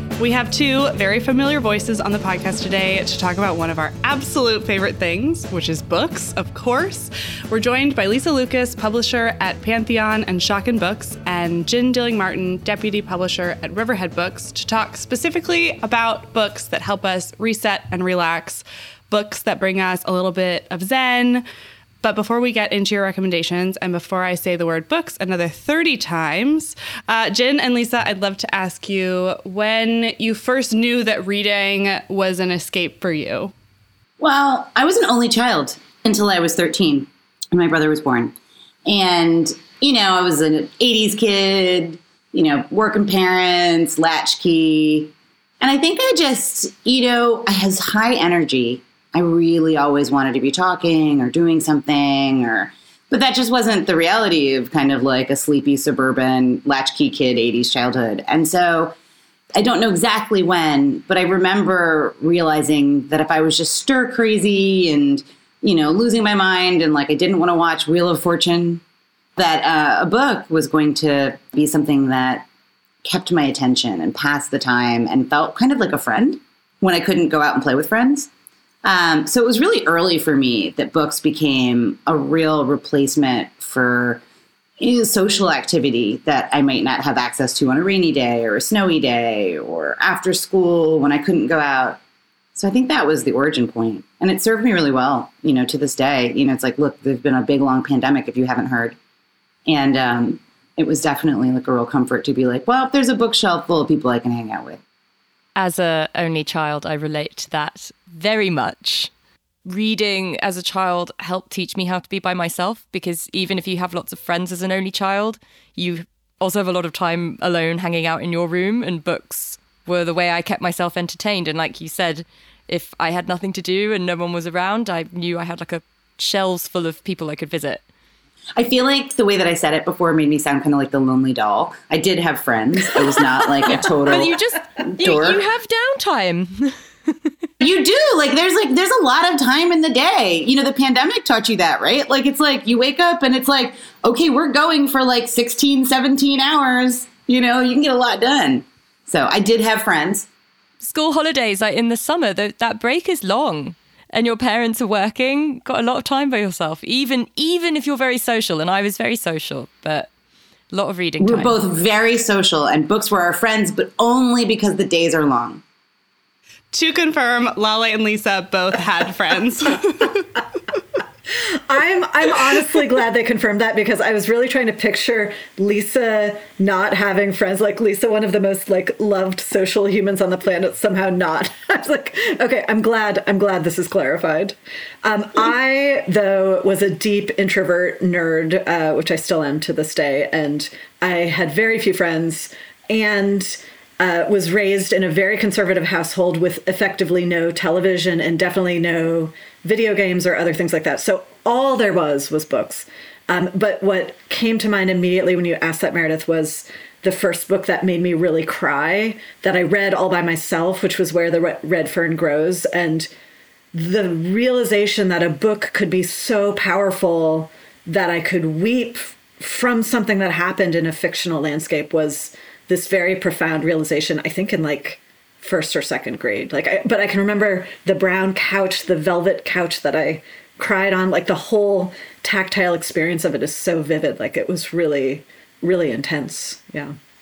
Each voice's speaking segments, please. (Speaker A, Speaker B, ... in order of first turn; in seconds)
Speaker A: 0.2-21.4, 22.0-33.5, 166.7-170.3
Speaker B: 34.2-58.9, 59.6-68.8, 69.4-72.5, 73.0-78.3, 78.8-84.2, 84.8-92.0, 92.6-99.0, 99.7-104.8, 128.6-135.4, 137.6-150.3, 161.2-165.6
Speaker C: 105.6-109.1, 109.7-127.8, 133.7-137.3, 150.8-160.1, 160.7-161.6
Speaker D: 171.3-213.1, 213.7-236.9